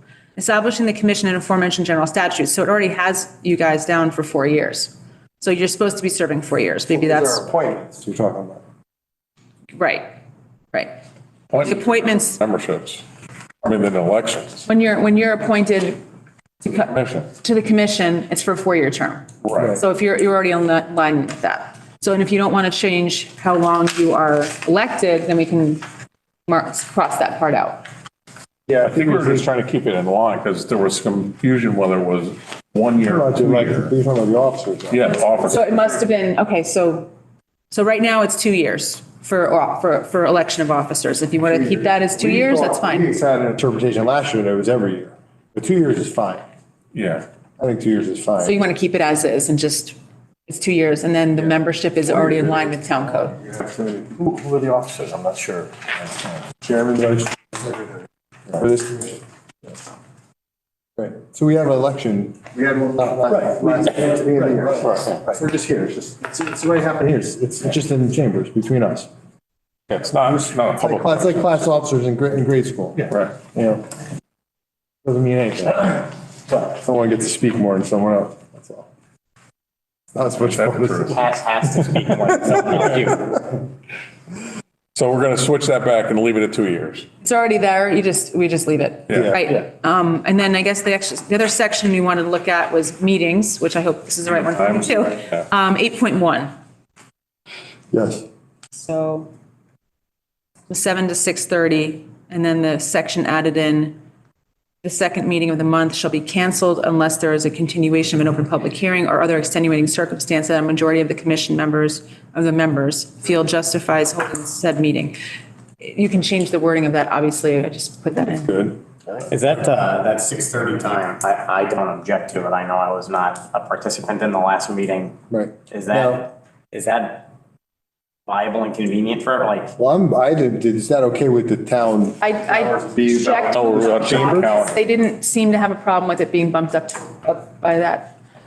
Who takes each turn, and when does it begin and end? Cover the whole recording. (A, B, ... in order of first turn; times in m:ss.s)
0:00.4-0:07.4 A
0:06.9-0:08.6 B
0:09.8-0:10.1 A
0:11.5-0:13.0 C
0:11.6-0:12.4 A
0:13.6-0:14.6 C
0:14.7-0:16.0 A
0:16.6-0:25.8 A
0:16.9-0:17.3 C
0:19.4-0:19.8 C
0:26.5-0:27.8 A
0:28.7-0:29.4 B
0:28.8-0:33.9 C
0:33.0-0:35.0 B
0:34.9-0:35.7 C
0:35.4-0:37.1 A
0:37.7-0:43.2 A
0:41.4-0:46.4 B
0:46.9-0:47.2 C
0:47.6-0:48.6 B
0:48.4-0:53.4 A
0:53.4-0:54.1 B
0:54.2-0:56.4 C
0:56.6-0:57.9 B
0:58.5-0:59.2 B
1:01.0-1:09.1 B
1:04.8-1:05.2 C
1:09.9-1:11.6 C
1:10.8-1:13.8 B
1:13.0-1:13.3 C
1:15.0-1:18.9 B
1:20.1-1:21.2 B
1:20.5-1:21.2 C
1:21.1-1:23.4 D
1:24.9-1:27.1 C
1:27.2-1:36.5 A
1:29.1-1:29.4 C
1:34.4-1:35.5 C
1:37.9-1:38.2 B
1:38.7-1:39.3 A
1:40.7-1:44.0 A
1:44.8-1:55.2 A
1:55.8-1:58.5 A
1:58.4-1:58.8 B
1:59.3-2:05.2 D
2:05.3-2:06.2 B
2:05.7-2:07.3 D
2:08.3-2:09.7 D
2:09.8-2:14.5 B
2:12.2-2:18.1 A
2:13.5-2:14.8 C